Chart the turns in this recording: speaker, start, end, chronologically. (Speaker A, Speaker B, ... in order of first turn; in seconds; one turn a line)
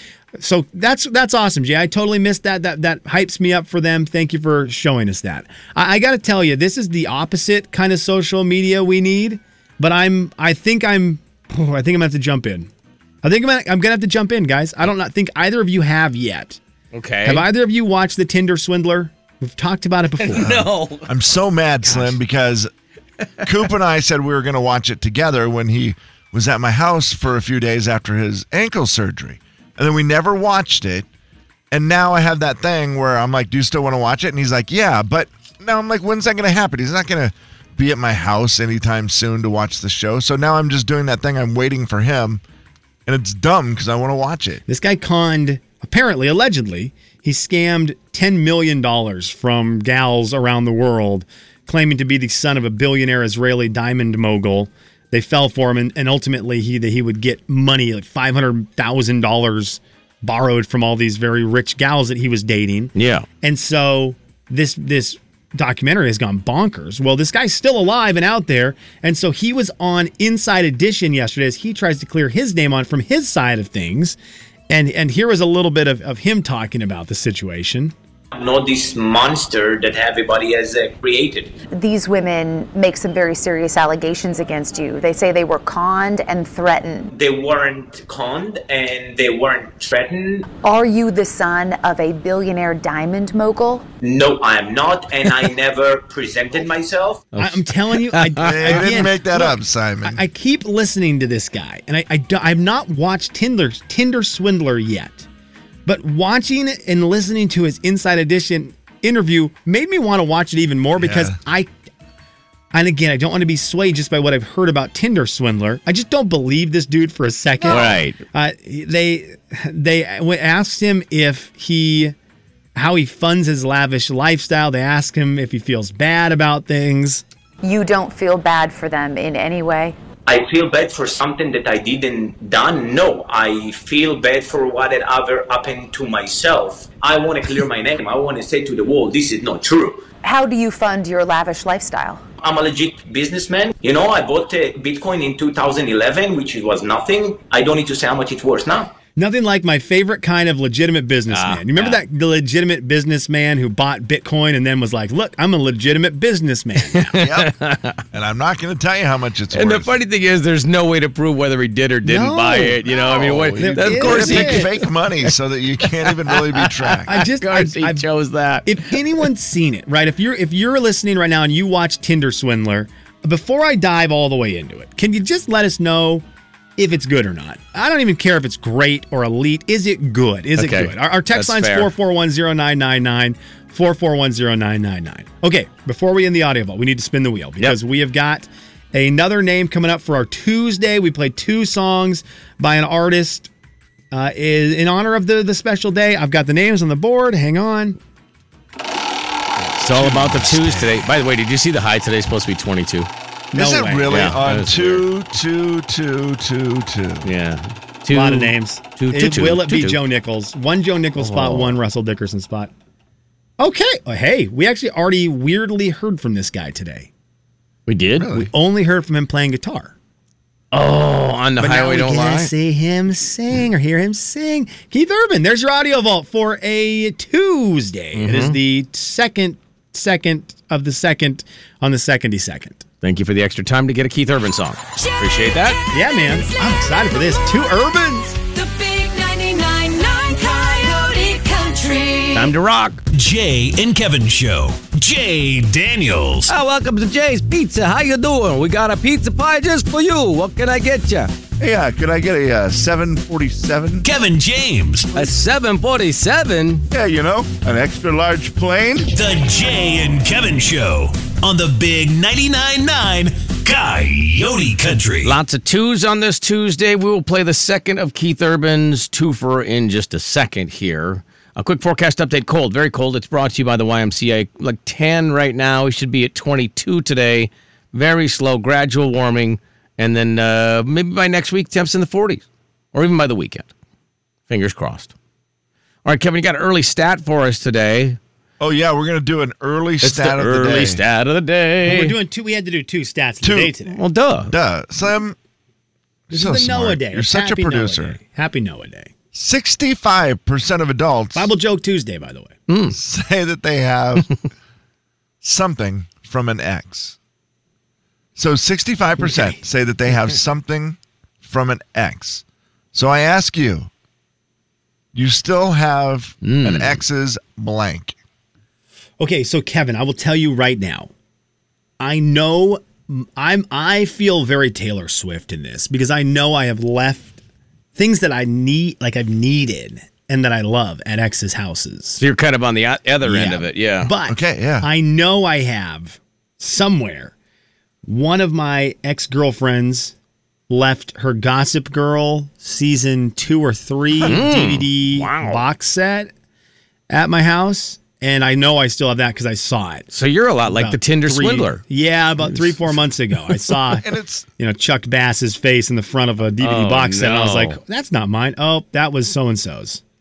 Speaker A: 0.4-12.7
Speaker A: 13.2-16.6
Speaker B: 16.9-17.5
Speaker A: 17.2-20.5
Speaker B: 20.2-21.1
Speaker C: 20.3-22.7
Speaker C: 23.4-31.1
Speaker C: 31.7-42.4
Speaker C: 43.0-44.6
Speaker A: 44.7-74.2
Speaker B: 62.9-63.2
Speaker A: 74.7-77.9
Speaker D: 78.3-81.6
Speaker E: 81.7-87.0
Speaker D: 87.0-90.5
Speaker E: 90.6-93.8
Speaker D: 93.9-97.2
Speaker B: 97.3-99.0
Speaker A: 97.4-105.2
Speaker C: 98.4-100.2
Speaker A: 105.8-111.7
Speaker C: 111.0-111.3
Speaker A: 112.7-122.1
Speaker B: 117.7-118.2
Speaker A: 122.7-127.2
Speaker E: 127.6-129.9
Speaker D: 130.2-140.1
Speaker E: 140.2-142.2
Speaker D: 142.3-148.9
Speaker A: 149.2-157.2
Speaker B: 151.3-152.0
Speaker B: 156.9-158.0
Speaker C: 157.1-157.5
Speaker C: 158.1-160.0
Speaker B: 159.5-165.3
Speaker A: 162.0-164.7
Speaker C: 162.9-167.2
Speaker B: 165.9-169.0
Speaker A: 167.1-168.1
Speaker A: 168.6-176.2
Speaker A: 176.8-193.5
Speaker B: 180.6-181.9
Speaker A: 194.1-198.0
Speaker B: 199.8-203.1
Speaker C: 199.8-201.1
Speaker A: 203.5-204.2
Speaker C: 203.5-207.3
Speaker B: 204.1-205.0
Speaker B: 207.2-210.0
Speaker A: 208.1-212.7
Speaker B: 211.2-211.8
Speaker A: 213.6-217.1
Speaker B: 217.9-218.3
Speaker C: 218.2-218.5
Speaker A: 218.3-219.9
Speaker B: 220.7-222.5
Speaker A: 221.6-232.8
Speaker B: 228.1-228.6
Speaker B: 233.0-235.8
Speaker F: 235.3-235.8
Speaker A: 235.9-238.4
Speaker F: 238.5-242.5
Speaker B: 242.3-243.0
Speaker G: 243.1-246.5
Speaker B: 246.5-251.3
Speaker C: 251.6-254.1
Speaker G: 254.0-255.1
Speaker B: 255.1-256.8
Speaker C: 256.9-259.1
Speaker G: 259.1-265.4
Speaker B: 265.2-282.4
Speaker B: 282.9-283.7
Speaker B: 284.5-285.1
Speaker B: 286.0-288.2
Speaker C: 288.6-291.0
Speaker B: 290.0-292.1
Speaker A: 291.8-294.0
Speaker C: 293.4-293.7
Speaker B: 293.9-294.5
Speaker C: 294.5-295.4
Speaker C: 296.3-298.2
Speaker A: 296.3-299.1
Speaker C: 299.3-301.5
Speaker A: 301.3-302.5
Speaker B: 302.7-302.9
Speaker C: 302.9-304.4
Speaker C: 305.4-307.2
Speaker C: 308.4-312.4
Speaker C: 312.9-313.9
Speaker C: 315.1-318.1
Speaker B: 316.4-317.0
Speaker A: 319.2-321.1
Speaker A: 322.0-327.4
Speaker A: 327.9-332.2
Speaker B: 332.2-334.1
Speaker A: 333.2-337.3
Speaker C: 334.3-334.9
Speaker A: 338.0-340.1
Speaker A: 340.7-346.3
Speaker B: 344.2-345.6
Speaker A: 347.1-350.1
Speaker B: 350.1-351.8
Speaker A: 350.7-354.0
Speaker B: 352.4-352.9
Speaker C: 353.9-354.5
Speaker A: 354.6-360.0
Speaker B: 356.6-357.8